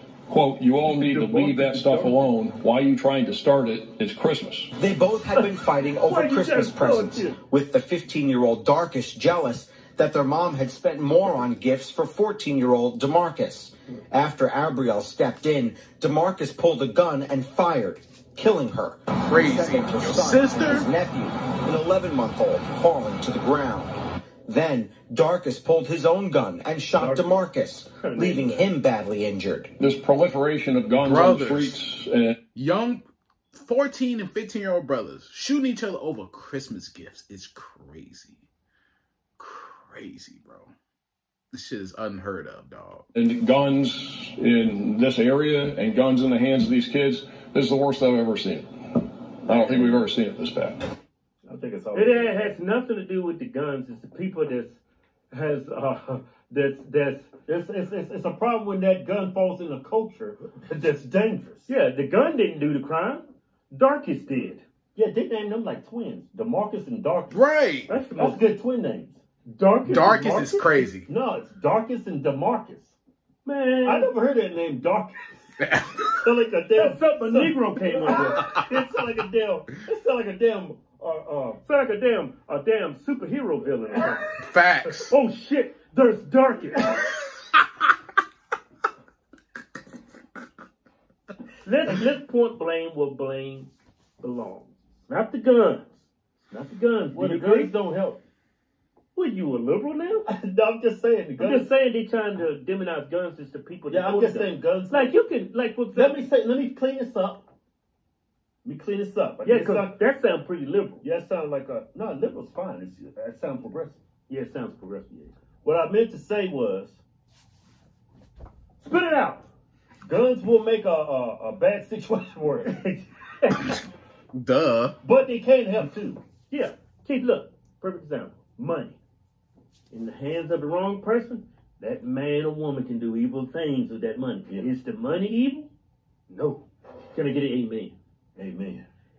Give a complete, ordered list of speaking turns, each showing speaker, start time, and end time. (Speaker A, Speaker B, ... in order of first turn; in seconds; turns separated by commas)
Speaker A: 0.3-4.7, Speaker B: 1.0-2.1, Speaker C: 4.8-29.7, Speaker B: 5.3-7.4, Speaker D: 19.2-20.9, Speaker B: 27.0-27.3, Speaker B: 28.0-28.7, Speaker A: 29.8-32.4, Speaker D: 31.0-31.8, Speaker D: 32.5-38.4, Speaker D: 39.4-40.7, Speaker D: 41.5-43.0, Speaker A: 43.1-48.7, Speaker A: 49.4-50.8, Speaker E: 51.4-52.5, Speaker B: 51.9-54.8, Speaker B: 55.3-57.3, Speaker E: 57.4-61.7, Speaker B: 61.7-64.6, Speaker E: 64.9-67.4, Speaker D: 67.3-67.9, Speaker B: 67.9-68.4, Speaker E: 68.2-69.2, Speaker B: 69.5-70.9, Speaker D: 69.8-71.1, Speaker E: 71.0-72.9, Speaker B: 73.4-74.1, Speaker E: 73.8-75.2, Speaker D: 75.6-76.1, Speaker E: 75.9-81.6, Speaker B: 76.8-78.5, Speaker B: 81.6-84.3, Speaker D: 84.4-85.1, Speaker B: 84.9-86.9, Speaker B: 91.6-96.0, Speaker B: 96.5-97.8, Speaker E: 97.1-98.2, Speaker B: 99.2-100.3, Speaker E: 100.3-101.7, Speaker B: 101.4-106.2, Speaker E: 103.9-105.2, Speaker E: 105.9-107.5, Speaker E: 108.6-110.0, Speaker B: 109.4-111.0, Speaker E: 111.0-114.0, Speaker B: 114.3-115.3, Speaker E: 115.6-117.0, Speaker B: 118.8-119.4, Speaker E: 120.0-123.0, Speaker D: 124.3-125.0, Speaker E: 125.0-126.2, Speaker B: 126.5-129.0, Speaker B: 129.9-135.7, Speaker B: 136.3-137.9, Speaker E: 138.4-138.9